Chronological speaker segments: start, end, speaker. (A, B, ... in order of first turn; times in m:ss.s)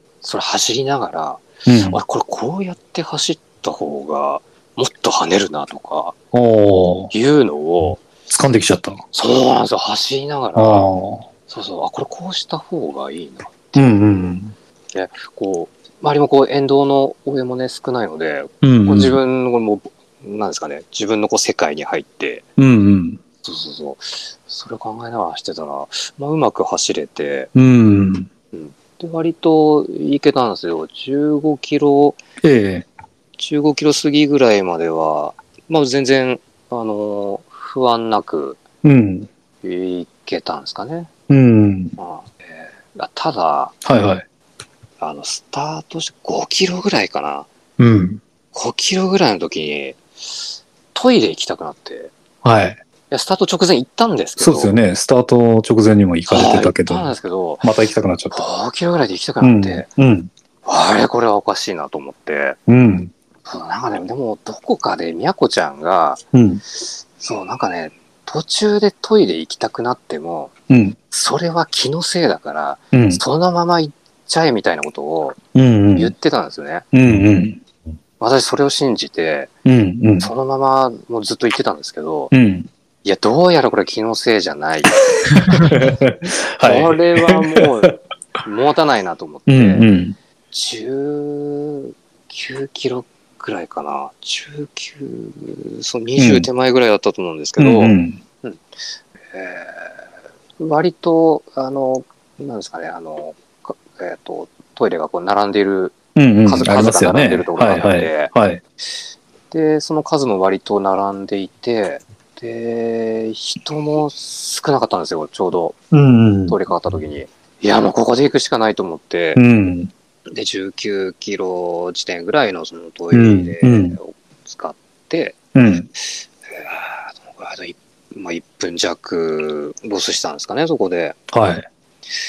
0:00.2-0:06.2 A
0:01.7-0:02.0 B
0:06.3-0:07.1 B
0:07.1-0:08.0 A
0:08.3-0:09.0 B
0:09.1-0:10.9 A
0:10.6-0:11.3 B
0:11.5-0:14.4 A
0:13.8-0:14.5 B
0:14.9-0:22.5 A
0:18.6-0:19.2 B
0:22.6-0:23.2 B
0:23.4-0:27.5 A
0:27.6-0:28.3 B
0:28.5-0:32.2 A
0:32.4-0:32.9 B
0:33.4-0:38.6 A
0:38.8-0:39.3 B
0:39.6-0:41.1 A
0:41.3-0:42.0 B
0:42.0-0:43.8 A
0:43.8-0:44.2 B
0:45.0-0:47.5 A
0:47.8-0:48.2 B
0:48.5-0:52.1 A
0:52.4-0:52.8 B
0:53.1-0:54.8 A
0:54.4-0:57.1 B
0:56.3-0:57.7 A
0:57.6-0:58.4 B
0:58.3-0:59.9 A
0:59.4-1:00.3 B
1:00.6-1:02.6 A
1:02.7-1:03.1 B
1:03.4-1:06.2 A
1:06.3-1:06.6 B
1:06.8-1:10.5 A
1:10.7-1:11.0 B
1:11.1-1:15.4 A
1:12.9-1:13.2 B
1:15.6-1:16.1 B
1:16.0-1:16.9 A
1:16.9-1:17.6 B
1:18.2-1:19.5 A
1:19.7-1:20.3 B
1:20.2-1:22.3 A
1:22.3-1:22.7 B
1:23.0-1:25.8 A
1:25.5-1:27.6 B
1:26.6-1:29.9 A
1:29.5-1:30.2 B
1:30.5-1:38.6 A
1:36.2-1:36.5 B
1:37.6-1:38.2 B
1:39.3-1:40.0 A
1:40.6-1:48.3 A
1:46.2-1:48.6 B
1:49.5-1:55.8 A
1:55.9-1:56.6 B
1:56.5-1:59.4 A
1:59.4-1:59.9 B
2:00.3-2:05.4 A
2:03.1-2:04.0 B
2:05.6-2:05.9 B
2:06.0-2:11.2 A
2:11.3-2:11.7 B